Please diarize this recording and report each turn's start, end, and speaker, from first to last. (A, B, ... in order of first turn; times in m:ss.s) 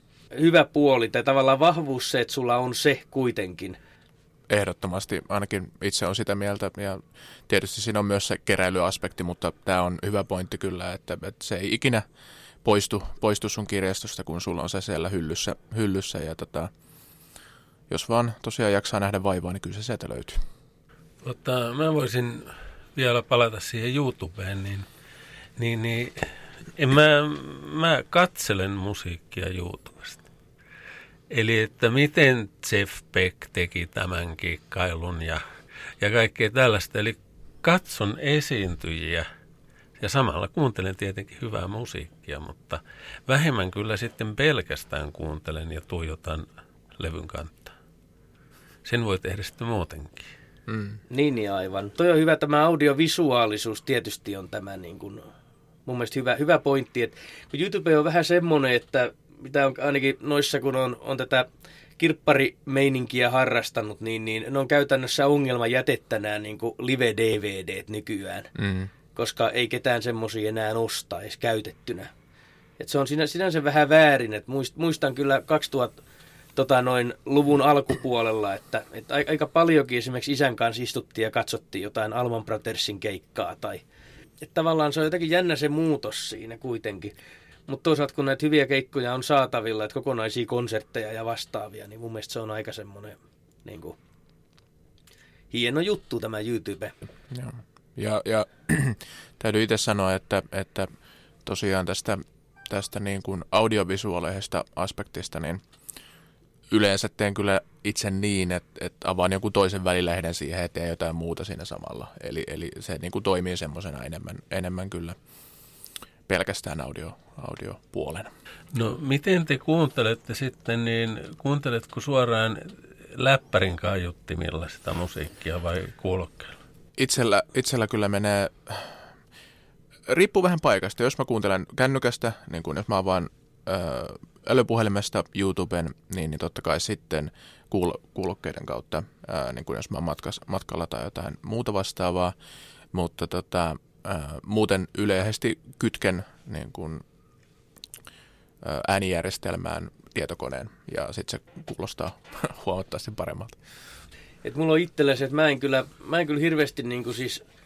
0:00.3-0:03.8 A
0:04.5-0:12.0 B
0:12.6-0:16.7 B
0:17.9-0:20.4 B
0:21.2-0:24.9 C
0:25.6-0:30.2 C
0:31.3-0:35.4 C
0:36.0-0:39.3 C
0:40.0-0:46.5 C
0:47.0-0:47.7 C
0:48.8-0:50.3 C
0:50.7-0:51.0 B
0:51.1-0:55.2 A
0:55.9-1:01.4 A
1:02.0-1:08.5 A
1:08.6-1:08.9 B
1:09.1-1:12.1 A
1:12.8-1:16.0 A
1:16.6-1:23.8 A
1:24.4-1:27.1 A
1:27.7-1:34.0 A
1:35.5-1:36.9 A
1:37.3-1:40.9 B
1:41.4-1:45.6 B
1:46.7-1:55.2 B
1:56.3-1:58.3 B
1:58.7-2:06.6 C
2:07.0-2:09.0 B
2:10.1-2:22.3 B
2:22.9-2:27.0 B
2:28.6-2:33.6 B
2:34.4-2:37.4 A